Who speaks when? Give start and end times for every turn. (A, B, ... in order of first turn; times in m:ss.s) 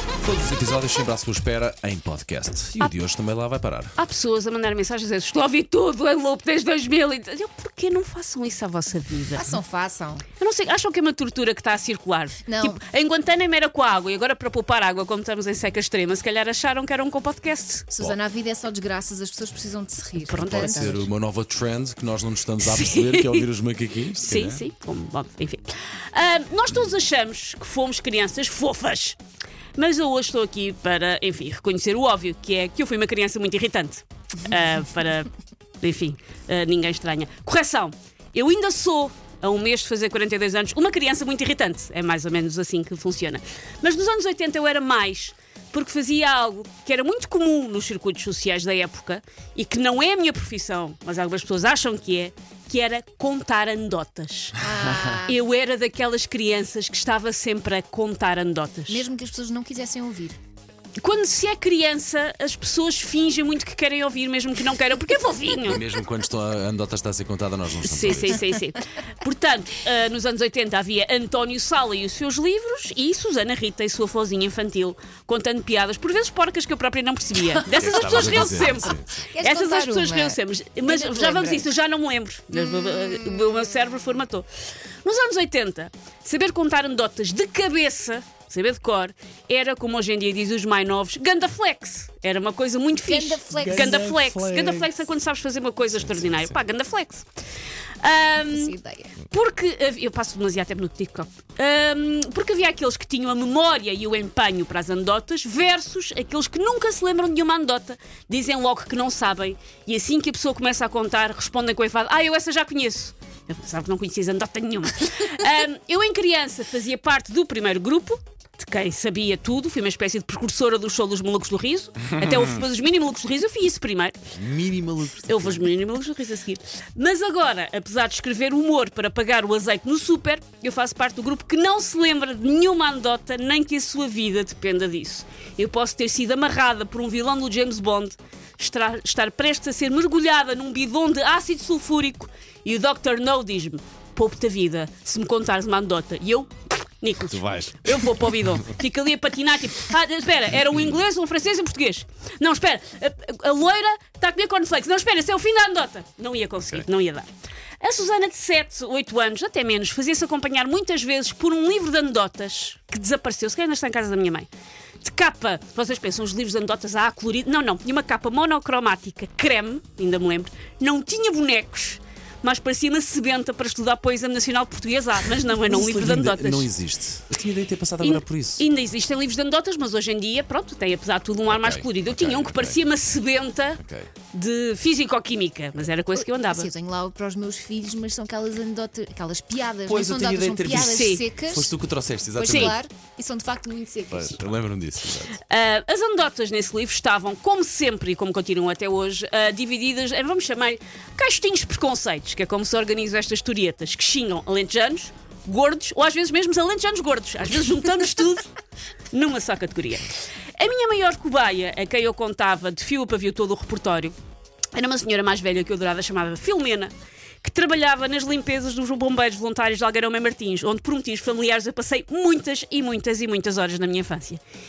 0:00.2-0:04.0 A
0:04.0-0:09.5 B
0:09.4-0:10.2 C
0:10.4-0:17.9 B
0:12.4-0:12.8 C
0:17.9-0:21.1 C
0:20.2-0:21.0 B
0:20.4-0:24.6 A
0:22.6-0:23.5 B
0:24.1-0:29.2 B
0:29.7-0:54.5 B
0:54.6-0:55.4 C
0:55.2-0:59.0 B
0:58.9-1:00.4 C
1:01.0-1:05.8 B
1:05.7-1:08.4 A
1:07.8-1:24.5 B
1:08.3-1:08.6 C
1:17.8-1:19.3 A
1:18.8-1:21.7 C
1:25.0-1:37.2 B
1:33.0-1:34.2 C
1:34.2-1:34.7 A
1:38.0-2:04.2 B
1:38.4-1:39.1 C
2:04.4-2:05.7 A
2:05.3-2:37.3 B
2:27.4-2:27.7 A
2:37.8-2:44.5 B
2:45.0-2:56.7 B
2:55.7-2:58.6 A
2:58.0-3:06.7 B
3:01.5-3:02.8 A
3:03.8-3:04.1 A
3:06.1-3:11.7 C
3:09.9-3:12.8 A
3:10.6-3:11.2 B
3:12.4-3:14.4 C
3:12.5-3:12.8 B
3:14.1-3:15.4 A
3:15.4-3:28.5 B
3:29.1-3:34.1 B
3:34.7-3:36.9 B
3:37.4-3:44.4 B